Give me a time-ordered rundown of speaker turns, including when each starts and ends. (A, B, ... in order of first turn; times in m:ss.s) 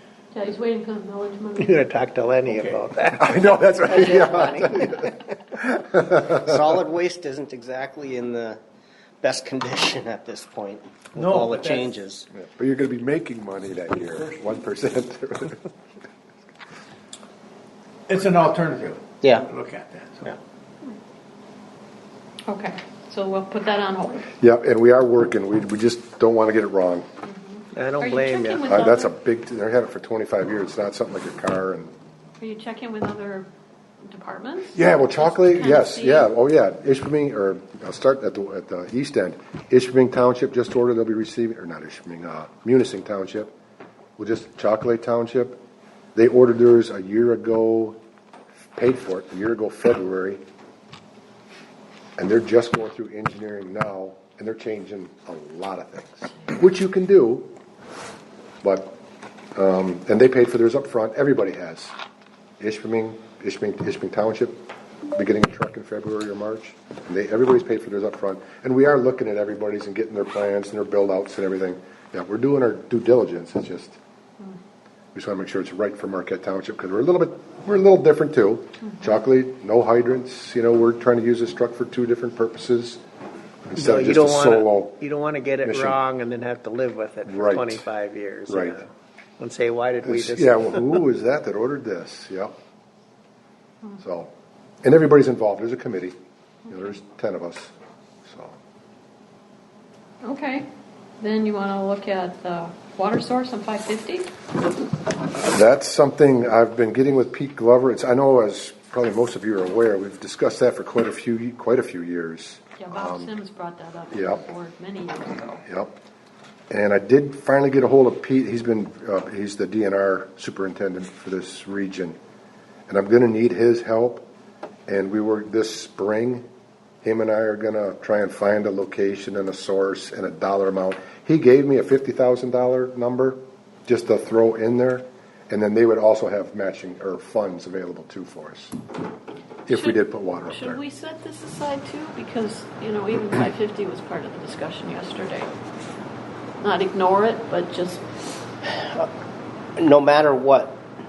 0:00.3-0:01.9 A
0:01.6-0:03.5 B
0:02.4-0:02.9 C
0:03.2-0:06.5 D
0:03.9-0:04.3 A
0:04.2-0:05.2 B
0:06.2-0:08.6 E
0:09.2-0:12.3 E
0:11.2-0:11.9 C
0:12.3-0:15.6 D
0:18.1-0:20.4 C
0:19.2-0:19.5 E
0:22.5-0:24.3 A
0:24.4-0:27.1 D
0:27.2-0:29.2 A
0:27.8-0:28.7 B
0:28.7-0:31.9 D
0:32.4-0:33.5 A
0:34.0-0:36.3 A
0:34.7-0:43.5 D
0:44.2-0:45.6 D
0:46.2-0:48.0 D
0:48.8-0:50.4 D
0:52.2-0:57.5 D
0:58.6-0:59.0 D
0:59.6-1:01.9 D
1:02.6-1:14.0 D
1:15.1-1:23.0 D
1:23.7-1:25.0 D
1:23.8-1:31.0 B
1:25.6-1:26.0 D
1:27.3-1:27.8 D
1:28.5-1:28.8 D
1:30.0-1:32.5 D
1:34.0-1:34.3 D
1:34.8-1:36.2 D
1:36.7-1:37.7 D
1:38.2-1:38.6 D
1:40.2-1:40.7 A
1:41.2-1:44.4 A
1:45.3-1:53.4 D
1:52.8-1:55.6 A
1:54.1-1:54.4 D
1:55.7-1:56.0 D
1:56.7-2:02.2 D
2:02.9-2:04.2 D
2:04.9-2:06.5 D
2:07.0-2:18.8 D
2:19.7-2:20.8 D
2:19.7-2:25.5 A
2:26.6-2:28.0 A
2:28.7-2:29.1 E
2:29.8-2:30.8 E